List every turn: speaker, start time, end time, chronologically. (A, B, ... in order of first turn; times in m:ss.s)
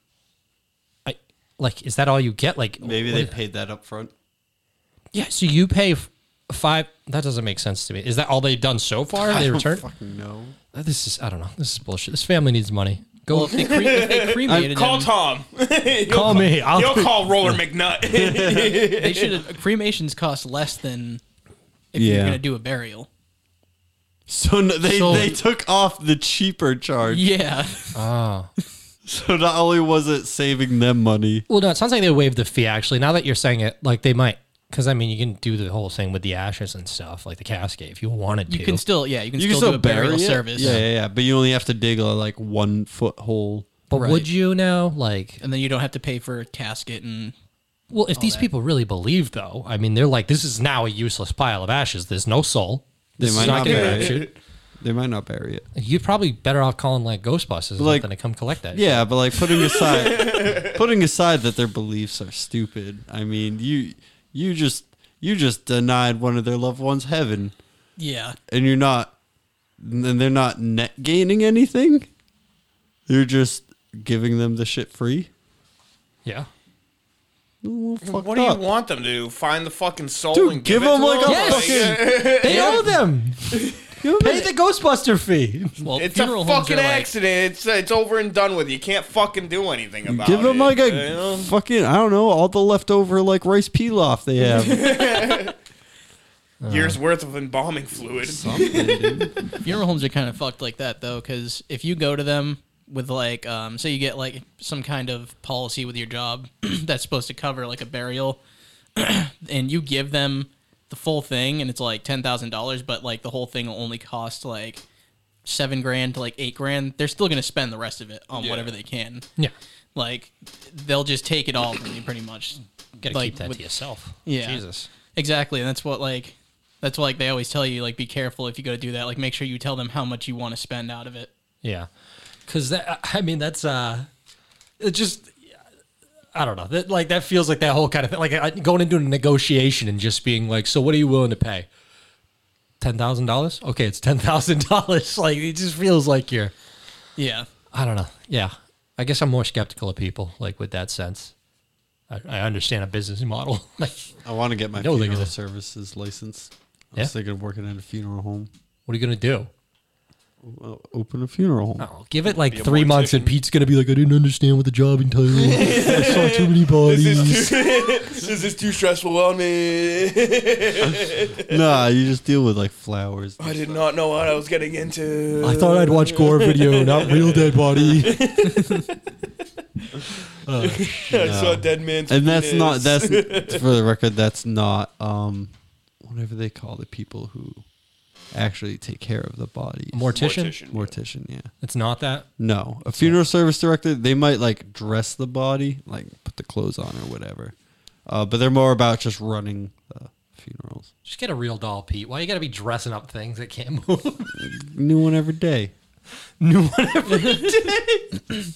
0:01.1-0:03.4 A
0:02.8-0:04.1 B
0:05.1-0:09.8 A
0:09.1-0:10.6 B
0:10.7-0:13.6 A
0:13.3-0:15.1 C
0:13.5-0:19.4 D
0:14.5-0:14.7 B
0:16.1-0:17.6 A
0:18.1-0:18.9 B
0:18.8-0:21.2 C
0:21.9-0:23.1 C
0:22.0-0:22.4 B
0:24.3-0:27.3 B
0:24.9-0:25.4 C
0:27.1-0:28.0 C
0:28.0-0:28.5 A
0:29.1-0:31.5 B
0:31.5-0:38.8 A
0:38.5-0:40.7 C
0:39.4-0:43.7 B
0:40.6-0:40.9 A
0:43.9-0:45.4 A
0:43.9-0:44.3 C
0:45.4-0:47.3 C
0:47.9-0:54.3 A
0:48.2-0:48.5 C
0:53.2-0:55.7 B
0:53.4-0:54.3 D
0:55.8-0:59.1 A
0:57.8-0:58.1 B
0:58.7-1:07.6 B
0:59.6-1:00.8 D
1:08.0-1:08.4 C
1:08.5-1:09.2 B
1:09.8-1:12.1 B
1:13.1-1:15.3 B
1:17.6-1:18.6 B
1:18.0-1:22.8 D
1:20.3-1:22.8 B
1:21.3-1:23.6 A
1:21.3-1:21.8 C
1:22.4-1:22.8 C
1:24.0-1:24.5 B
1:24.2-1:25.8 A
1:25.8-1:27.1 C
1:26.0-1:31.5 D
1:30.1-1:35.4 B
1:34.5-1:35.6 D
1:36.6-1:37.0 A
1:36.7-1:39.3 D
1:38.2-1:39.4 B
1:39.6-1:48.4 C
1:49.0-1:54.8 C
1:55.4-1:59.2 C
1:58.4-1:58.7 D
2:00.0-2:03.6 C
2:03.0-2:04.9 A
2:04.2-2:04.6 C
2:05.2-2:11.3 C
2:11.6-2:11.9 A
2:12.5-2:14.1 A
2:14.8-2:15.4 A
2:16.3-2:21.7 A
2:22.8-2:26.5 A
2:27.2-2:27.5 C
2:27.7-2:31.3 A
2:32.1-2:34.2 A
2:34.2-2:38.5 B
2:34.8-2:35.3 A
2:38.9-2:39.5 A
2:40.4-2:41.9 B
2:41.8-2:47.6 A
2:42.2-2:43.4 D
2:45.4-2:51.6 D
2:51.5-2:53.8 B
2:53.4-2:58.9 D
2:55.4-2:58.2 A
3:00.5-3:01.3 A
3:00.6-3:03.6 D
3:01.1-3:05.5 B
3:06.0-3:07.6 B
3:08.3-3:10.2 B
3:09.9-3:10.6 A
3:10.1-3:10.9 D
3:10.7-3:11.5 B
3:11.6-3:12.3 A
3:12.4-3:17.5 B
3:12.9-3:13.2 A
3:18.1-3:20.9 B
3:21.0-3:24.4 A
3:24.4-3:25.7 B
3:26.4-3:28.0 A